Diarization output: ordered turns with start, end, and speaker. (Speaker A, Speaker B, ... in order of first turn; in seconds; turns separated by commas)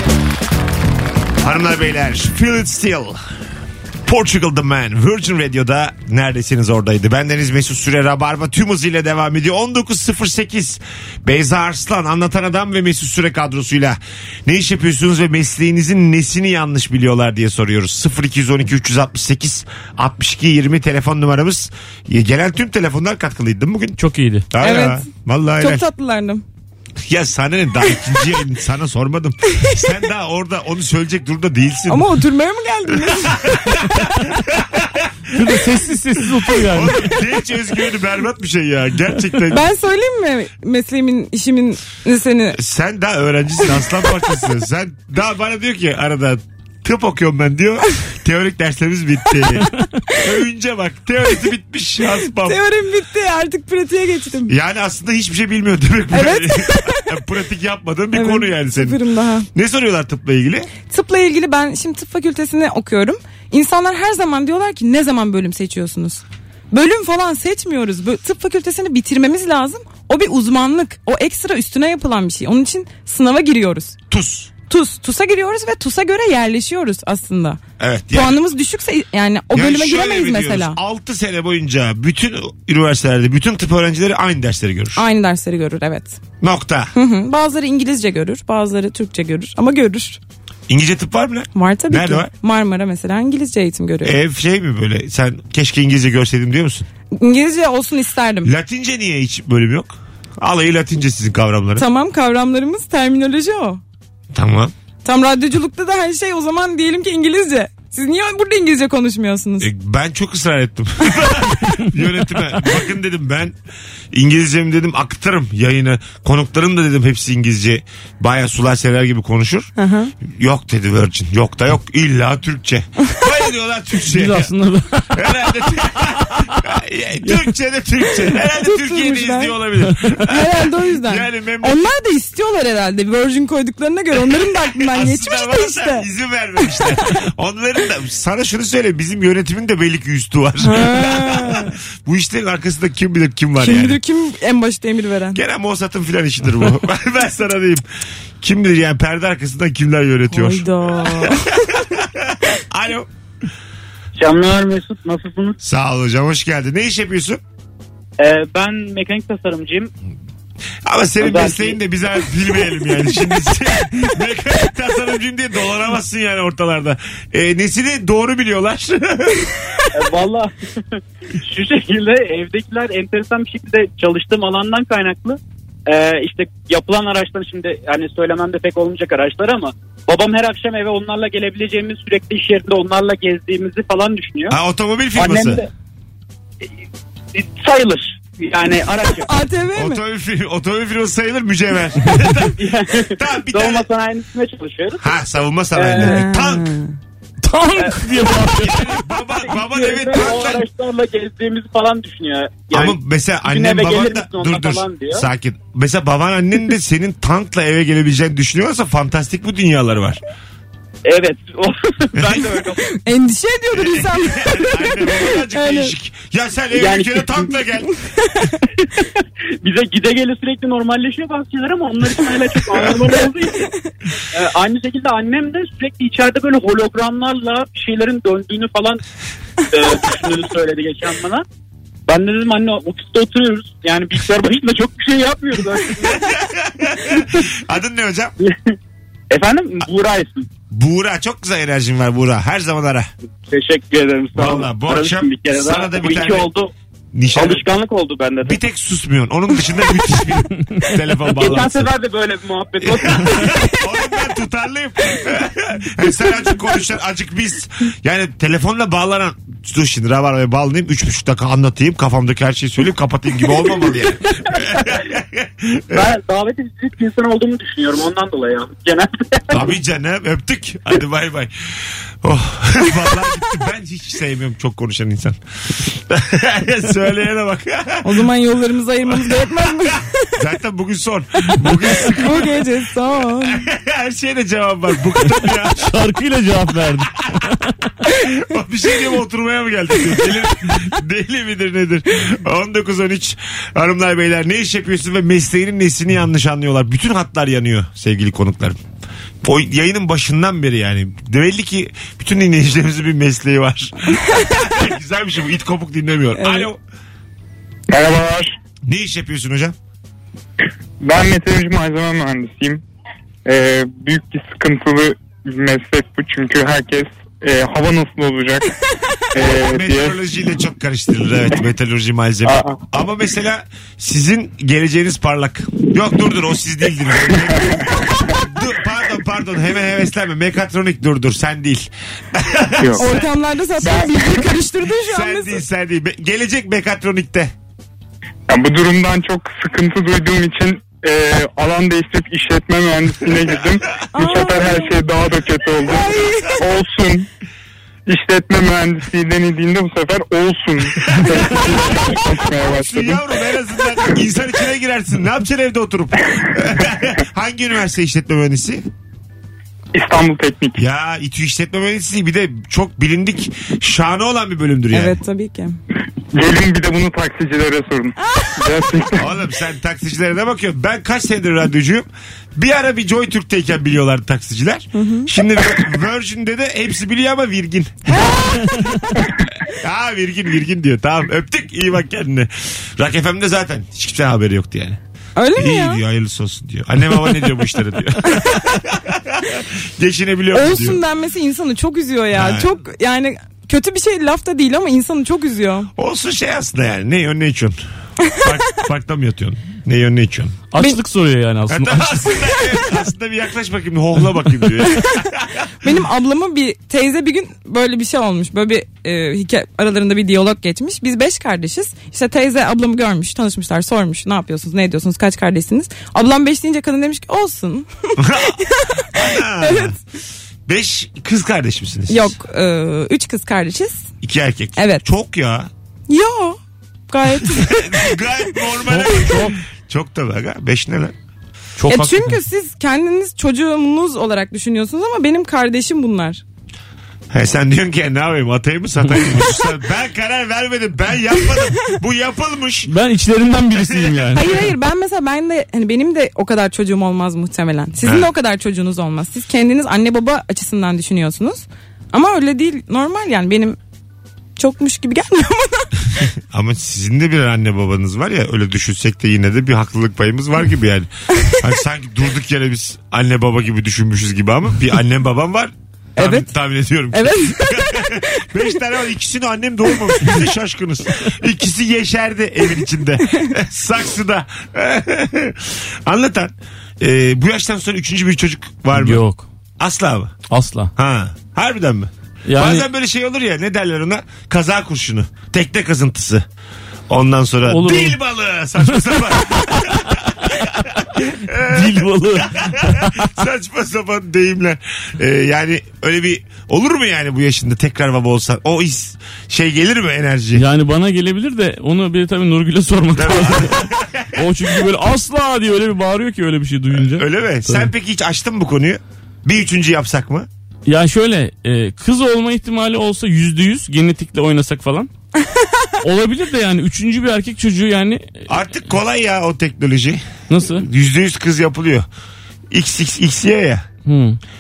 Speaker A: 1.4-3.2, Speaker A: 4.0-24.0, Speaker B: 24.0-24.5, Speaker A: 24.5-25.8, Speaker C: 24.6-26.4, Speaker A: 27.0-32.1, Speaker C: 31.9-33.6, Speaker A: 32.9-35.6, Speaker B: 35.3-37.2, Speaker A: 36.3-39.6, Speaker C: 39.5-42.6, Speaker A: 42.5-52.6, Speaker C: 52.4-54.5, Speaker A: 54.5-59.0, Speaker C: 56.1-57.2, Speaker C: 58.1-59.5, Speaker A: 59.5-60.7, Speaker C: 60.9-74.0, Speaker A: 74.1-74.5, Speaker C: 74.7-77.6, Speaker A: 77.8-78.4, Speaker C: 78.1-80.8, Speaker A: 79.5-85.0, Speaker C: 84.9-86.2, Speaker A: 86.4-86.9, Speaker C: 86.9-90.2, Speaker A: 90.7-92.3, Speaker C: 91.5-94.1, Speaker A: 94.0-96.8, Speaker C: 97.1-98.5, Speaker A: 98.4-101.8, Speaker C: 101.8-103.8, Speaker A: 104.3-104.7, Speaker C: 105.0-109.7, Speaker A: 109.6-113.5, Speaker A: 114.1-124.5, Speaker C: 119.8-120.1, Speaker B: 124.1-126.5, Speaker A: 125.1-131.9, Speaker C: 128.6-129.6, Speaker C: 130.2-136.1, Speaker A: 134.3-144.0, Speaker C: 136.6-136.9, Speaker C: 140.6-141.7, Speaker C: 143.6-145.4, Speaker A: 145.3-147.8, Speaker A: 148.4-153.1, Speaker C: 150.3-151.8, Speaker D: 154.2-155.6, Speaker A: 155.6-157.4, Speaker D: 158.2-159.9, Speaker A: 160.8-169.9, Speaker D: 161.2-161.8, Speaker D: 169.9-170.5, Speaker D: 171.4-184.6, Speaker A: 184.5-185.6, Speaker D: 185.1-185.7, Speaker D: 187.3-189.3, Speaker C: 189.2-190.0, Speaker A: 189.7-193.8, Speaker D: 192.6-195.1, Speaker A: 195.0-196.7, Speaker D: 195.7-196.2, Speaker C: 196.0-196.8, Speaker B: 197.4-199.0, Speaker D: 197.8-198.0, Speaker A: 198.6-200.7, Speaker D: 199.4-205.2, Speaker A: 202.7-210.2, Speaker D: 211.0-212.9, Speaker C: 213.0-215.9, Speaker A: 213.7-217.9, Speaker D: 216.7-217.5, Speaker C: 218.2-218.5, Speaker D: 219.0-223.7, Speaker D: 224.3-229.0, Speaker D: 229.7-231.4, Speaker D: 232.1-236.3, Speaker A: 236.0-238.3, Speaker D: 237.0-237.4, Speaker D: 238.4-238.7, Speaker D: 239.3-240.5, Speaker A: 240.7-243.1, Speaker D: 243.5-246.7, Speaker A: 244.3-246.5, Speaker A: 247.1-247.6, Speaker D: 247.3-248.6, Speaker A: 248.4-251.9, Speaker D: 251.3-253.7, Speaker A: 252.8-266.1, Speaker D: 264.4-265.1, Speaker D: 265.9-269.6, Speaker A: 269.5-278.3, Speaker C: 278.0-280.3, Speaker A: 279.1-282.6, Speaker C: 281.6-283.6, Speaker A: 283.4-285.9, Speaker B: 285.8-287.9, Speaker A: 288.2-298.8, Speaker A: 299.4-306.8, Speaker C: 304.1-304.5, Speaker C: 306.4-306.7, Speaker E: 307.9-308.5, Speaker A: 308.8-309.7, Speaker E: 311.0-312.8, Speaker E: 313.4-318.7, Speaker E: 319.3-320.2, Speaker A: 319.4-333.3, Speaker E: 322.4-322.8, Speaker E: 327.5-328.0, Speaker E: 332.8-333.1, Speaker C: 333.0-335.6, Speaker E: 333.8-334.4, Speaker A: 334.9-337.5, Speaker E: 338.5-347.3, Speaker C: 344.1-345.0, Speaker C: 345.8-346.6, Speaker E: 348.1-353.3, Speaker A: 351.0-358.8, Speaker E: 359.9-360.8, Speaker A: 360.8-365.2, Speaker C: 364.9-365.8, Speaker E: 366.3-369.3, Speaker C: 368.2-368.9, Speaker A: 369.2-378.7, Speaker C: 374.9-375.3, Speaker C: 378.1-379.2, Speaker A: 379.6-385.0, Speaker C: 385.4-386.0, Speaker A: 385.5-391.0, Speaker C: 390.5-395.9, Speaker A: 392.3-392.7, Speaker A: 395.9-397.8, Speaker A: 398.3-400.6, Speaker B: 400.7-402.5, Speaker A: 401.7-405.7, Speaker C: 405.8-420.0, Speaker A: 418.2-419.9, Speaker A: 420.7-422.3, Speaker C: 422.1-424.0, Speaker A: 424.2-425.7, Speaker C: 424.8-425.0, Speaker C: 426.1-426.6, Speaker C: 427.1-428.6, Speaker A: 427.4-431.1, Speaker B: 428.9-429.6, Speaker B: 431.8-432.4, Speaker C: 431.9-436.4, Speaker A: 437.3-442.9, Speaker B: 442.9-444.6, Speaker A: 443.8-444.2, Speaker C: 444.3-453.8, Speaker A: 448.0-448.3, Speaker C: 454.6-456.0, Speaker A: 456.2-479.2, Speaker C: 466.1-466.5, Speaker C: 467.1-468.5, Speaker B: 478.9-479.4, Speaker A: 479.8-480.3, Speaker B: 480.5-480.9, Speaker A: 480.9-486.4, Speaker B: 482.4-482.9, Speaker A: 487.1-500.6, Speaker B: 487.7-488.2, Speaker B: 489.6-489.9, Speaker B: 491.6-493.4, Speaker B: 500.5-507.9, Speaker A: 503.1-504.7, Speaker A: 506.9-510.5, Speaker B: 510.9-515.1, Speaker B: 516.0-518.5, Speaker A: 518.5-522.1, Speaker B: 520.5-520.9, Speaker A: 522.7-523.9, Speaker B: 524.0-524.4